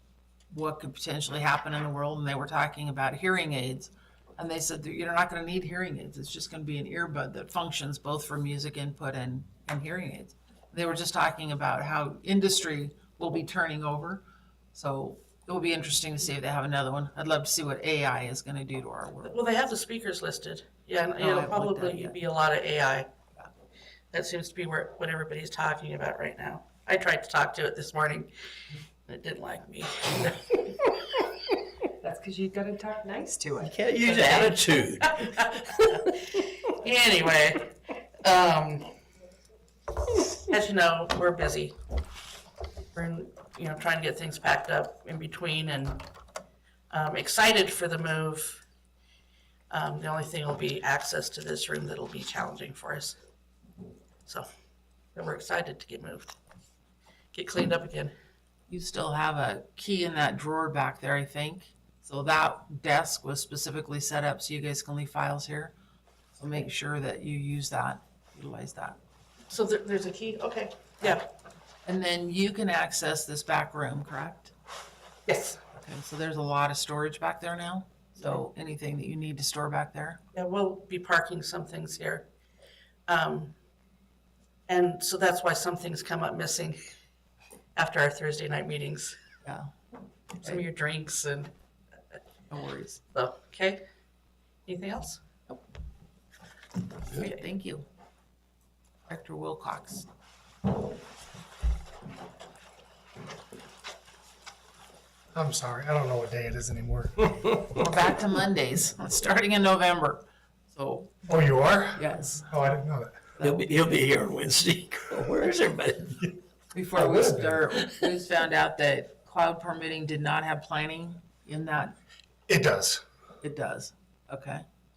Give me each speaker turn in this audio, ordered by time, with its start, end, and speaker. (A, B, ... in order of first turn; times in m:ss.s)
0:00.5-0:14.2 A
0:14.8-0:19.3 A
0:19.2-0:23.1 B
0:21.2-0:22.2 A
0:24.1-0:28.3 B
0:29.1-0:30.7 B
0:32.0-0:34.5 C
0:33.6-0:35.7 D
0:35.0-0:38.9 B
0:40.4-0:41.8 B
0:42.9-0:46.0 B
0:46.9-0:48.6 B
0:49.7-0:53.2 B
0:55.2-0:56.3 B
0:57.3-0:58.1 B
0:58.7-1:05.7 A
1:06.4-1:09.0 A
1:09.5-1:11.2 B
1:11.8-1:14.5 A
1:15.3-1:15.6 B
1:15.8-1:20.2 A
1:20.3-1:22.3 B
1:23.1-1:23.5 B
1:24.7-1:26.8 B
1:27.8-1:29.2 B
1:29.4-1:29.7 A
1:30.4-1:31.5 B
1:32.5-1:33.0 A
1:33.1-1:33.8 B
1:34.7-1:35.2 B
1:37.1-1:37.9 A
1:37.1-1:37.4 B
1:39.1-1:40.1 A
1:45.3-1:47.4 E
1:47.7-1:51.4 A
1:51.3-1:53.4 E
1:52.0-1:52.5 A
1:53.4-1:53.7 A
1:53.4-1:56.2 D
1:56.7-2:01.9 A
1:56.9-1:57.6 E
2:02.5-2:03.0 E
2:03.4-2:04.6 A